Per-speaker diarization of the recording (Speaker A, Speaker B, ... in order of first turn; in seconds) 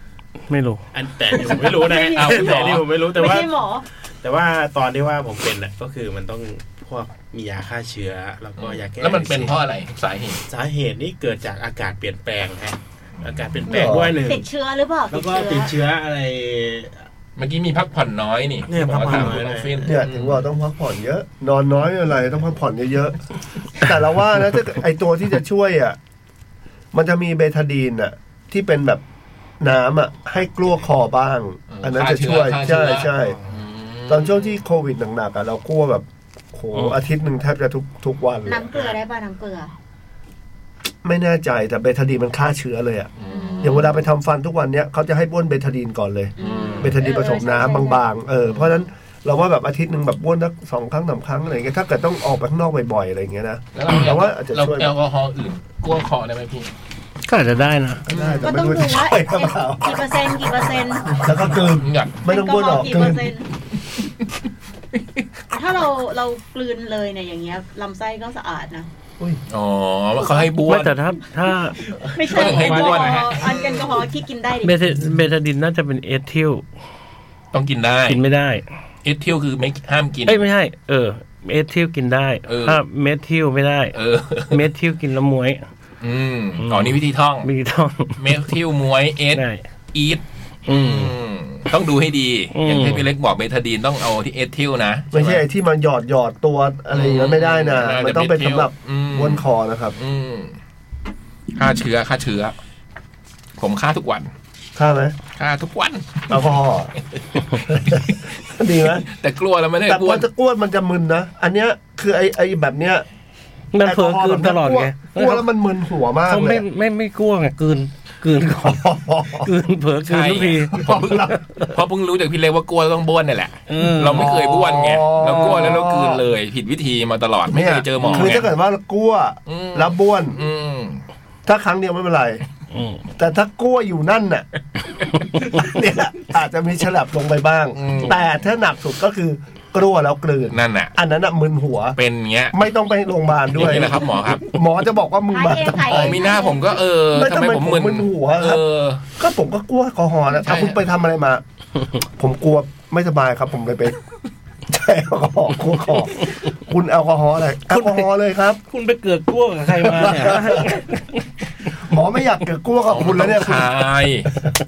Speaker A: 0.5-0.8, 57.3-58.0, 70.7-71.8, 74.6-76.7, 78.1-78.7, 80.3-84.0, 84.5-85.7, 86.6-88.4, 89.3-89.6, 90.7-91.1, 92.5-93.0, 113.7-115.4, 116.2-121.4, 123.7-124.3, 128.0-128.3, 132.7-133.0, 157.7-158.1, 158.7-161.2
Speaker B: 0.9-3.5, 4.2-9.6, 10.5-14.5, 15.1-17.1, 18.6-20.0, 33.1-33.6, 72.2-73.2
Speaker C: 1.5-2.9, 8.6-10.4, 13.2-13.6, 17.4-20.5, 31.7-34.6, 43.2-43.9, 46.4-47.2, 53.7-56.7, 58.1-58.6, 61.6-62.2, 69.5-71.0, 72.1-74.0, 77.5-78.2, 79.0-80.4, 82.5-82.8, 83.9-84.6, 86.0-87.5, 88.2-95.4, 96.9-99.4, 100.0-100.6, 101.5-102.5, 103.6-104.3, 105.4-106.4, 109.0-110.2, 120.0-128.5, 129.5-131.0, 137.7-138.2, 140.5-140.9, 142.0-142.6, 143.5-144.5, 145.9-149.0, 150.4-150.8, 162.9-164.3
Speaker D: 1.7-3.8, 13.7-15.8, 38.5-39.7, 43.3-44.0, 46.4-48.0, 58.4-61.3, 62.2-63.5, 65.5-68.9, 70.2-70.5, 72.1-74.7, 145.3-146.8
Speaker E: 13.7-14.2, 19.8-26.0, 26.9-29.0, 29.6-33.4, 34.1-38.7, 41.0-54.9, 58.1-63.3, 95.1-100.0, 104.8-105.2, 106.3-106.9, 107.7-109.0, 109.8-113.0, 113.8-116.6, 118.6-119.5, 120.7-121.3, 124.1-126.2, 127.5-130.4, 131.4-132.4, 133.2-134.4, 135.3-142.0, 142.5-146.3, 147.1-148.6, 149.2-151.4, 152.2-153.9, 154.7-158.6, 159.8-160.8, 161.7-163.8